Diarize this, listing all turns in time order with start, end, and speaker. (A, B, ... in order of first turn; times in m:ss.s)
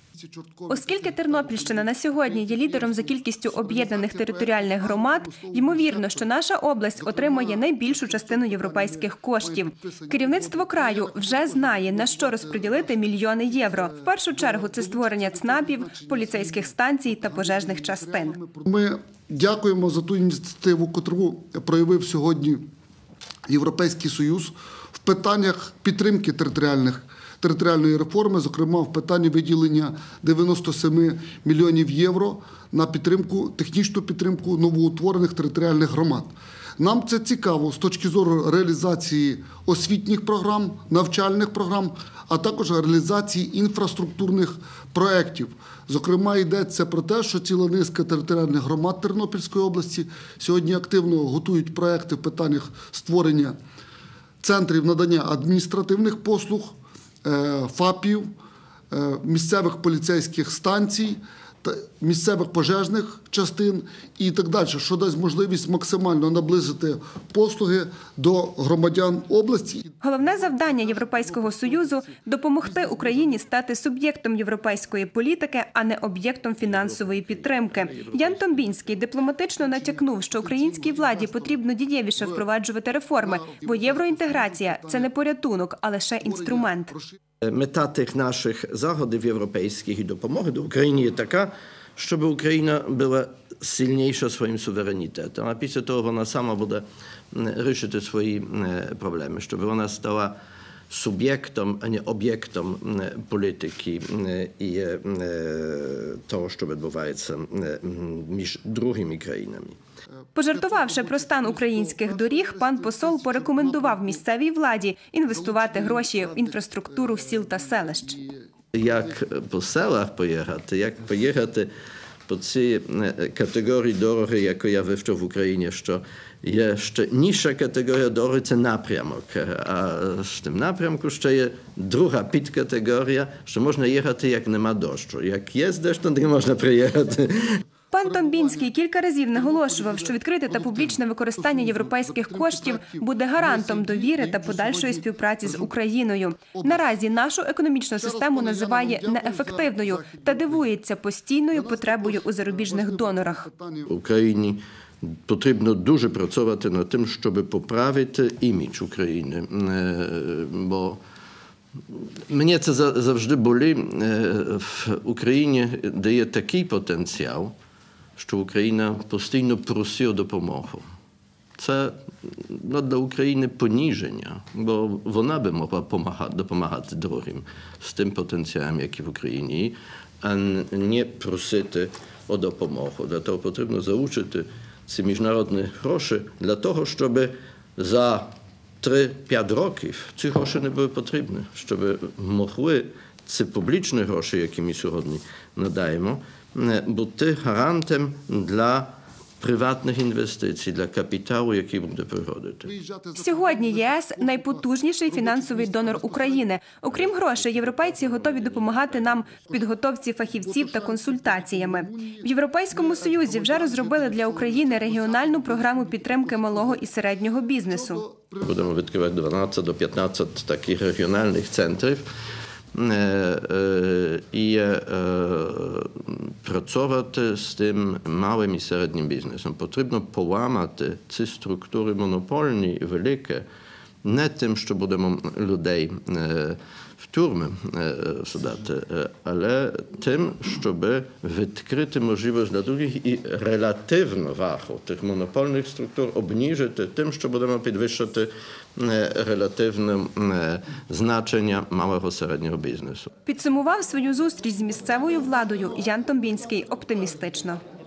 0:00.1-0:06.3 A
0:00.7-0:18.4 B
0:07.0-0:22.6 A
0:23.5-0:53.6 A
0:54.4-0:58.3 A
0:58.9-1:13.4 A
1:10.0-1:26.9 B
1:16.6-1:19.0 C
1:19.6-1:21.6 A
1:22.2-1:22.4 A
1:23.2-1:25.2 A
1:26.2-1:27.2 A
1:27.4-1:40.4 C
1:40.9-1:49.8 C
1:50.4-1:58.1 B
1:50.4-1:54.2 A
1:55.3-1:58.5 A
1:58.7-2:01.7 C
2:02.3-2:17.6 C
2:17.9-2:33.4 B
2:17.9-2:18.7 A
2:19.3-2:25.7 A
2:26.5-2:26.9 A
2:28.0-2:30.7 A
2:31.5-2:33.9 A
2:33.9-2:41.0 C
2:41.9-2:47.5 C
2:48.2-2:50.8 C
2:51.6-3:08.3 C
3:08.8-3:22.7 C
3:22.6-3:26.5 A
3:23.2-3:38.0 B
3:26.9-3:29.4 C
3:30.2-3:36.8 A
3:37.6-3:38.6 A
3:38.4-3:42.0 C
3:42.7-3:53.4 C
3:54.0-4:13.1 C
4:13.3-4:17.6 B